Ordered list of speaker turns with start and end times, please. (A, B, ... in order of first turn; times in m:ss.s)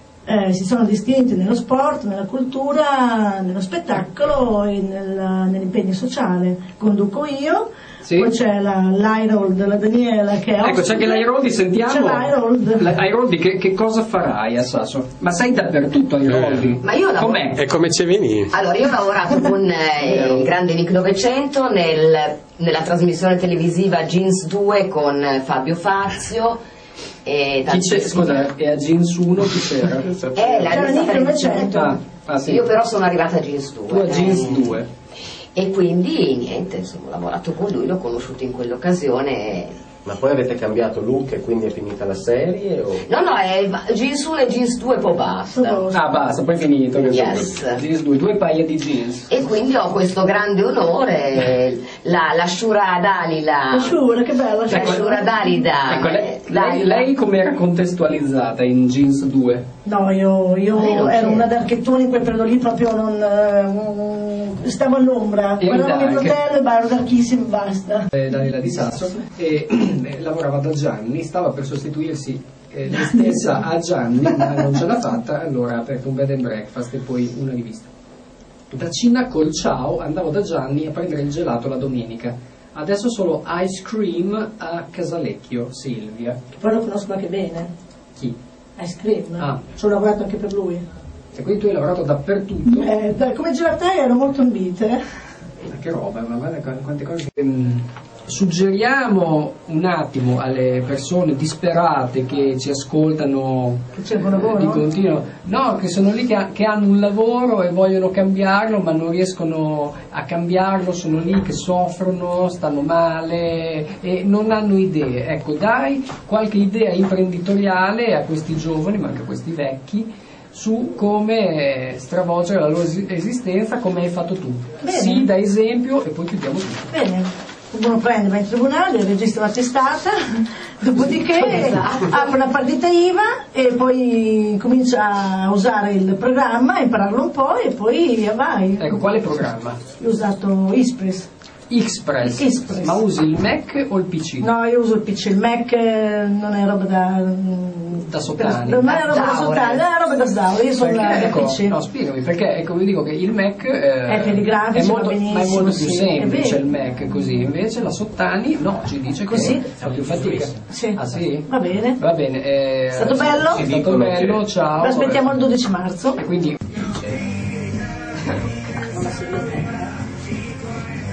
0:00.2-0:12.9 A
0:08.0-0:08.3 B
0:10.6-0:17.5 B
0:16.8-0:17.6 C
0:17.6-0:18.5 D
0:18.5-0:26.6 C
0:20.0-0:20.5 B
0:27.2-0:28.5 C
0:27.7-0:32.7 B
0:30.3-0:31.6 C
0:30.7-0:32.0 A
0:32.4-0:34.8 C
0:33.9-0:34.9 B
0:35.5-0:39.8 C
0:40.0-0:43.1 D
0:43.0-0:45.8 C
0:45.5-0:46.1 A
0:45.9-0:49.3 B
0:47.0-0:47.8 C
0:49.3-0:53.9 C
0:53.7-0:55.6 A
0:54.7-0:57.1 C
0:54.8-0:55.0 B
0:55.8-0:59.6 B
0:59.8-1:08.1 A
1:00.7-1:01.5 C
1:05.6-1:06.4 B
1:08.1-1:17.9 B
1:12.9-1:13.6 A
1:18.7-1:26.4 B
1:26.6-1:27.7 A
1:28.8-1:30.8 A
1:31.3-1:32.9 B
1:32.6-1:35.0 A
1:35.6-2:06.9 B
1:43.9-1:44.8 A
2:04.8-2:05.3 A
2:06.9-2:19.0 A
2:11.3-2:12.3 C
2:18.8-2:19.8 B
2:20.0-2:21.3 A
2:21.7-2:24.5 B
2:22.2-2:23.0 A
2:24.4-2:31.8 A
2:28.1-2:29.2 B
2:28.8-2:29.8 C
2:30.8-2:45.3 B
2:34.1-2:36.6 A
2:39.2-2:39.8 A
2:40.7-2:42.0 A
2:42.9-2:43.6 A
2:43.3-2:44.4 D
2:44.8-2:46.2 A
2:46.2-2:46.8 B
2:48.8-2:49.9 A